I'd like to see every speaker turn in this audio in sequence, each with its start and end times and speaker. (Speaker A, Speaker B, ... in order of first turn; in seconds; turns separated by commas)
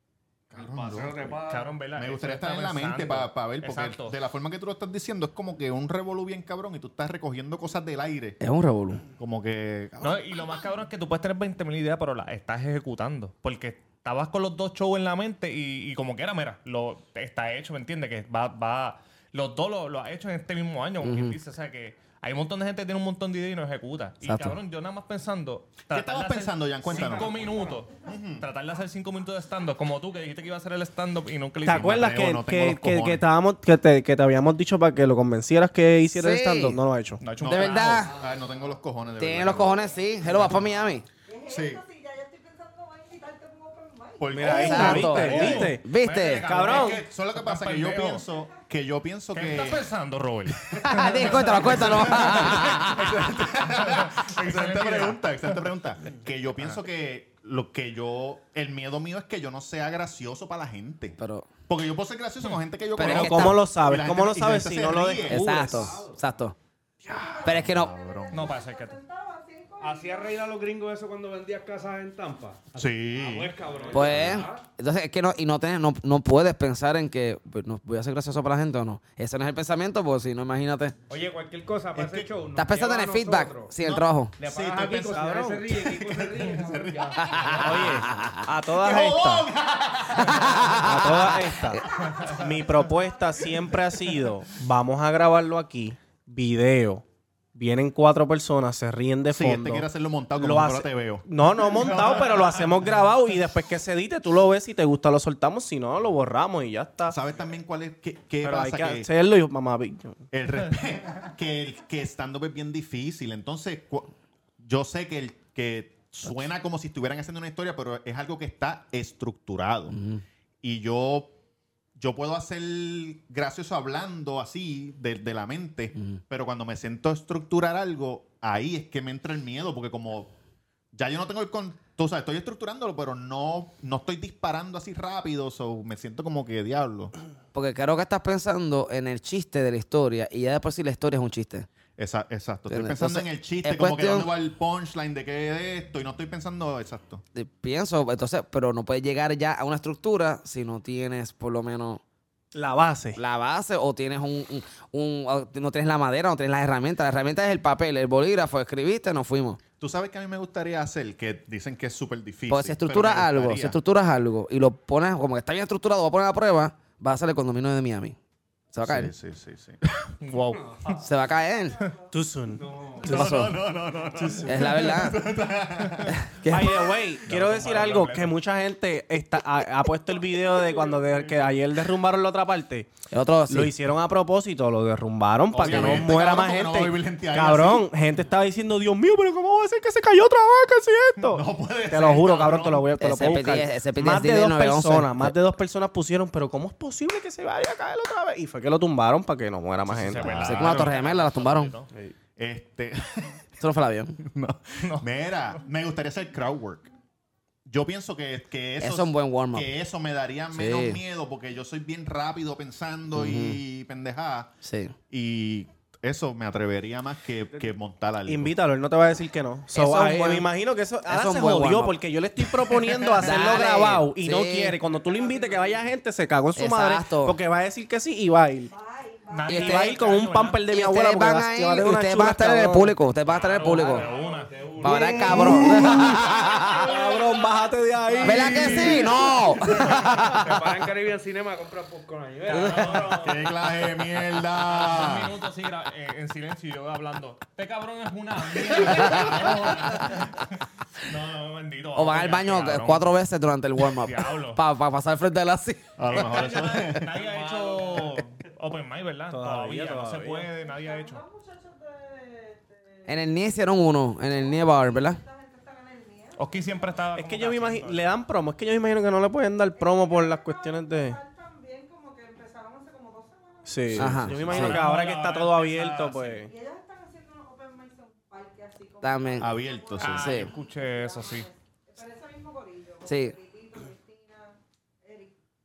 Speaker A: 0.5-1.4, Speaker B: 0.5-1.8, Speaker C: 1.4-4.2, Speaker A: 1.9-8.4, Speaker D: 8.4-9.0, Speaker A: 9.2-10.4, Speaker C: 10.0-32.1, Speaker D: 21.0-21.4, Speaker D: 24.2-24.6, Speaker A: 25.9-27.4, Speaker B: 26.9-27.8, Speaker A: 28.0-28.5, Speaker E: 31.6-37.2, Speaker A: 31.7-33.2, Speaker D: 36.1-36.8, Speaker C: 37.2-38.1, Speaker A: 37.4-40.6, Speaker D: 37.4-38.1, Speaker D: 39.2-41.0, Speaker A: 41.4-41.9, Speaker F: 41.9-44.1, Speaker A: 44.1-45.6, Speaker E: 44.3-45.8, Speaker C: 44.4-48.2, Speaker D: 44.5-46.5, Speaker E: 46.4-47.0, Speaker A: 46.6-49.9, Speaker C: 49.3-55.3, Speaker A: 50.7-61.2, Speaker D: 50.8-53.1, Speaker D: 61.2-61.5, Speaker A: 61.7-65.6, Speaker D: 63.0-63.6, Speaker E: 63.0-65.9, Speaker D: 65.2-66.5, Speaker B: 65.5-66.1, Speaker A: 67.0-68.5, Speaker D: 67.4-67.9, Speaker C: 68.3-69.0, Speaker F: 69.0-69.8, Speaker B: 69.8-74.6, Speaker A: 72.7-74.4, Speaker D: 73.9-80.9, Speaker B: 81.1-83.7, Speaker A: 81.9-82.3, Speaker D: 82.5-84.3, Speaker A: 83.8-87.9, Speaker B: 84.4-87.6, Speaker E: 85.1-85.7, Speaker D: 87.3-88.4, Speaker E: 87.5-89.5, Speaker A: 88.7-91.5, Speaker D: 90.3-90.9, Speaker E: 90.7-97.0, Speaker A: 92.0-92.3, Speaker E: 97.5-107.2, Speaker A: 99.3-101.2, Speaker A: 101.8-102.5, Speaker A: 107.1-109.1, Speaker E: 108.4-110.2, Speaker A: 110.3-120.0, Speaker D: 119.9-120.2, Speaker A: 120.6-121.3, Speaker A: 122.0-130.3, Speaker A: 130.9-137.1, Speaker D: 137.5-141.7, Speaker A: 142.0-147.2, Speaker D: 142.7-144.3, Speaker D: 147.3-152.0, Speaker E: 152.5-153.2, Speaker D: 153.2-159.6, Speaker A: 159.8-163.8, Speaker D: 162.5-168.2, Speaker D: 168.7-169.1, Speaker A: 168.8-169.8, Speaker C: 170.2-171.0, Speaker D: 171.0-171.8, Speaker E: 172.1-173.4, Speaker B: 172.6-173.1, Speaker A: 173.0-176.2, Speaker D: 173.0-173.6, Speaker D: 174.4-175.2, Speaker D: 176.1-176.7, Speaker E: 176.5-182.9, Speaker C: 177.2-178.3, Speaker D: 183.1-183.7, Speaker E: 183.5-200.4, Speaker A: 185.5-187.9, Speaker D: 185.6-186.1, Speaker A: 191.2-192.9, Speaker D: 193.0-195.3, Speaker C: 199.9-201.9, Speaker A: 200.1-200.9, Speaker D: 200.4-201.7, Speaker A: 202.4-203.4, Speaker D: 203.6-204.2, Speaker A: 204.2-206.9, Speaker C: 204.8-205.1, Speaker A: 207.7-214.5, Speaker D: 208.8-209.7, Speaker D: 210.5-211.0, Speaker D: 213.1-213.6, Speaker D: 214.6-214.9, Speaker A: 215.1-218.6, Speaker E: 218.2-228.7, Speaker D: 219.7-220.5, Speaker D: 221.1-221.9, Speaker A: 222.8-223.4, Speaker D: 223.2-224.8, Speaker D: 226.5-227.4, Speaker C: 229.3-230.6, Speaker D: 229.5-230.0, Speaker E: 229.5-232.9, Speaker D: 230.7-234.1, Speaker C: 233.2-235.5, Speaker B: 233.6-235.5, Speaker D: 234.8-236.9, Speaker E: 234.8-239.2, Speaker A: 235.3-236.2, Speaker C: 236.1-237.3, Speaker B: 236.9-237.3, Speaker C: 238.1-240.0, Speaker D: 238.2-240.5, Speaker A: 238.7-239.0, Speaker B: 239.9-243.4, Speaker C: 242.4-243.3, Speaker D: 242.5-243.0, Speaker A: 243.1-245.3, Speaker C: 244.6-253.1, Speaker A: 248.8-249.5, Speaker D: 251.9-256.7, Speaker C: 253.9-254.6, Speaker A: 256.0-257.2, Speaker C: 256.1-261.3, Speaker B: 257.2-258.1, Speaker E: 259.3-260.4, Speaker F: 261.3-262.6, Speaker D: 263.1-265.2, Speaker F: 265.3-266.3, Speaker C: 266.3-268.1, Speaker E: 267.1-271.2, Speaker F: 271.3-273.6, Speaker E: 273.6-276.5, Speaker A: 273.9-274.8, Speaker D: 273.9-274.8, Speaker C: 274.3-276.5, Speaker F: 276.6-279.0, Speaker D: 279.0-280.5, Speaker A: 279.4-280.5, Speaker C: 280.0-281.5, Speaker F: 281.9-284.5, Speaker D: 283.0-283.4